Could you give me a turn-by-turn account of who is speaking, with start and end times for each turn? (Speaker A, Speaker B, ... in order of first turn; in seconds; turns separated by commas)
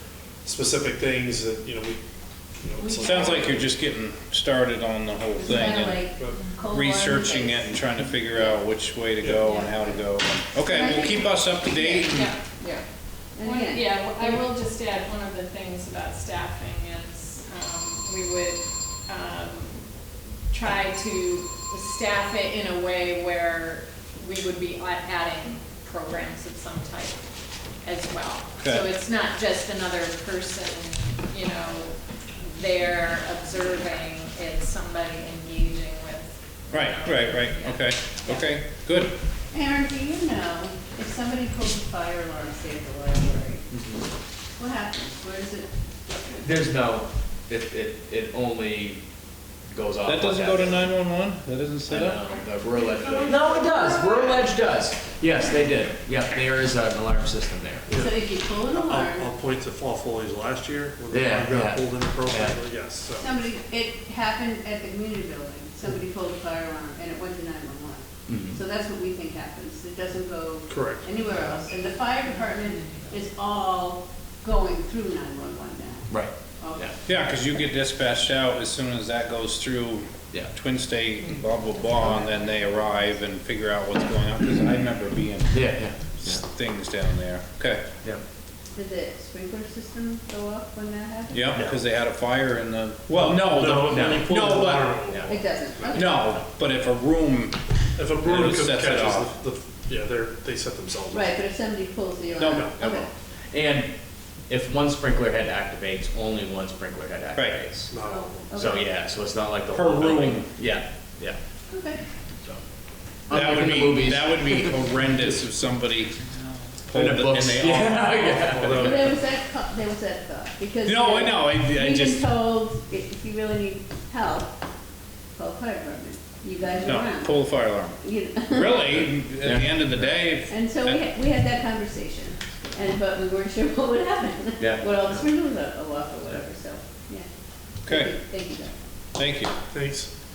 Speaker A: 0.4-2.0, Speaker A: 2.6-3.6, Speaker B: 2.8-3.5, Speaker C: 3.0-6.0, Speaker B: 5.4-8.6, Speaker A: 6.2-6.5, Speaker C: 6.7-12.3, Speaker A: 9.2-9.5, Speaker B: 9.5-10.0, Speaker B: 10.5-12.8, Speaker D: 12.1-12.4, Speaker B: 13.3-14.5, Speaker D: 13.4-19.9, Speaker D: 20.5-27.2, Speaker D: 27.8-38.5, Speaker C: 36.7-39.1, Speaker B: 39.5-43.7, Speaker E: 43.7-44.0, Speaker B: 44.6-46.5, Speaker E: 46.4-49.0, Speaker E: 49.7-50.8, Speaker C: 50.0-52.2, Speaker E: 51.9-57.9, Speaker B: 52.7-54.5, Speaker A: 57.9-63.5, Speaker B: 57.9-59.3, Speaker E: 61.1-62.5, Speaker B: 63.2-76.9, Speaker E: 68.3-68.6, Speaker A: 70.7-71.1, Speaker E: 76.1-76.9, Speaker C: 77.1-87.9, Speaker B: 81.9-82.8, Speaker E: 85.5-86.4, Speaker B: 88.7-91.5, Speaker C: 91.3-95.0, Speaker A: 93.1-96.1, Speaker B: 95.3-96.3, Speaker C: 95.9-97.6, Speaker A: 98.0-101.4, Speaker C: 98.2-99.3, Speaker B: 101.1-103.1, Speaker C: 102.4-102.7, Speaker A: 102.4-102.8, Speaker E: 102.9-103.9, Speaker E: 104.5-107.9, Speaker A: 107.9-108.6, Speaker B: 108.0-108.9, Speaker E: 108.6-111.4, Speaker C: 109.7-110.5, Speaker B: 111.7-112.0, Speaker E: 113.3-114.6, Speaker C: 113.3-116.2, Speaker C: 116.9-118.9, Speaker E: 116.9-118.9, Speaker A: 117.0-117.3, Speaker A: 118.1-119.1, Speaker B: 118.8-124.5, Speaker C: 120.8-122.3, Speaker B: 125.4-129.1, Speaker C: 126.8-131.0, Speaker B: 130.5-137.3, Speaker E: 134.6-135.2, Speaker B: 137.8-138.8, Speaker C: 137.9-138.2, Speaker C: 139.2-139.6, Speaker A: 139.7-140.1